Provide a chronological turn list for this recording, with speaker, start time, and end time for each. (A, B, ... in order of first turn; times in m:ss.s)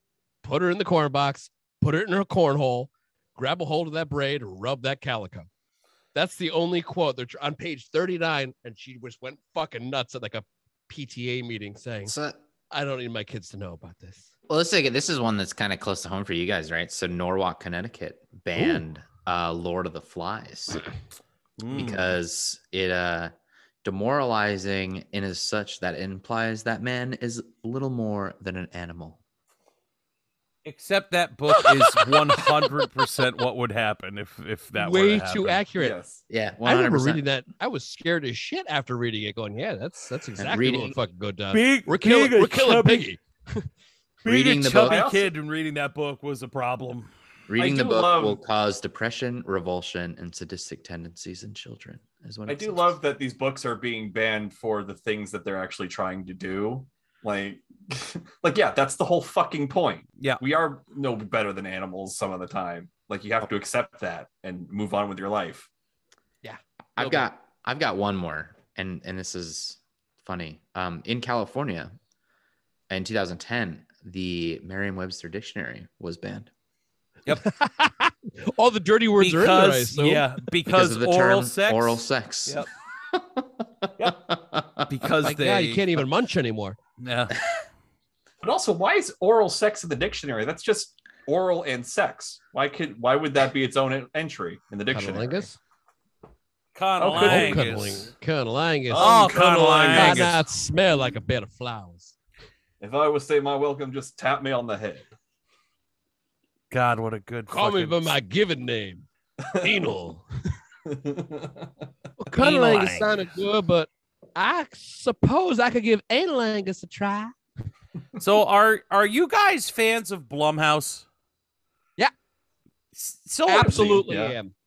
0:00.4-0:05.5 A
0:06.1-0:12.1 A
0:12.0-0:12.4 B
0:12.7-0:14.3 A
0:14.5-0:20.9 B
0:18.6-0:18.8 A
0:21.6-0:22.1 C
0:21.7-0:23.3 B
0:23.8-0:29.2 B
0:30.6-0:35.6 C
0:32.4-0:32.9 A
0:34.8-0:35.9 A
0:35.8-0:36.2 D
0:36.3-0:37.2 B
0:36.6-0:43.7 A
0:40.4-0:41.0 B
0:41.5-0:43.1 C
0:44.2-0:47.1 C
0:44.2-0:45.0 B
0:44.8-0:45.3 D
0:47.5-0:53.0 B
0:47.6-0:48.4 D
0:52.5-1:05.7 D
1:06.4-1:07.3 A
1:07.0-1:12.0 B
1:12.9-1:16.5 B
1:17.4-1:20.3 A
1:19.2-1:22.7 C
1:20.7-1:25.1 B
1:24.9-1:26.0 C
1:25.2-1:26.8 A
1:27.0-1:27.4 C
1:28.4-1:35.5 D
1:34.9-1:35.6 A
1:36.8-1:38.1 C
1:37.0-1:37.8 D
1:37.1-1:42.2 A
1:38.9-1:40.3 D
1:39.0-1:40.4 C
1:42.8-1:45.1 D
1:46.7-1:48.2 C
1:47.5-1:49.1 A
1:49.4-1:49.8 D
1:49.6-1:50.2 A
1:50.9-1:51.7 D
1:52.2-1:57.4 A
1:52.3-1:53.1 C
1:58.2-2:01.0 C
2:03.0-2:04.1 C
2:03.5-2:04.5 A
2:03.6-2:04.4 D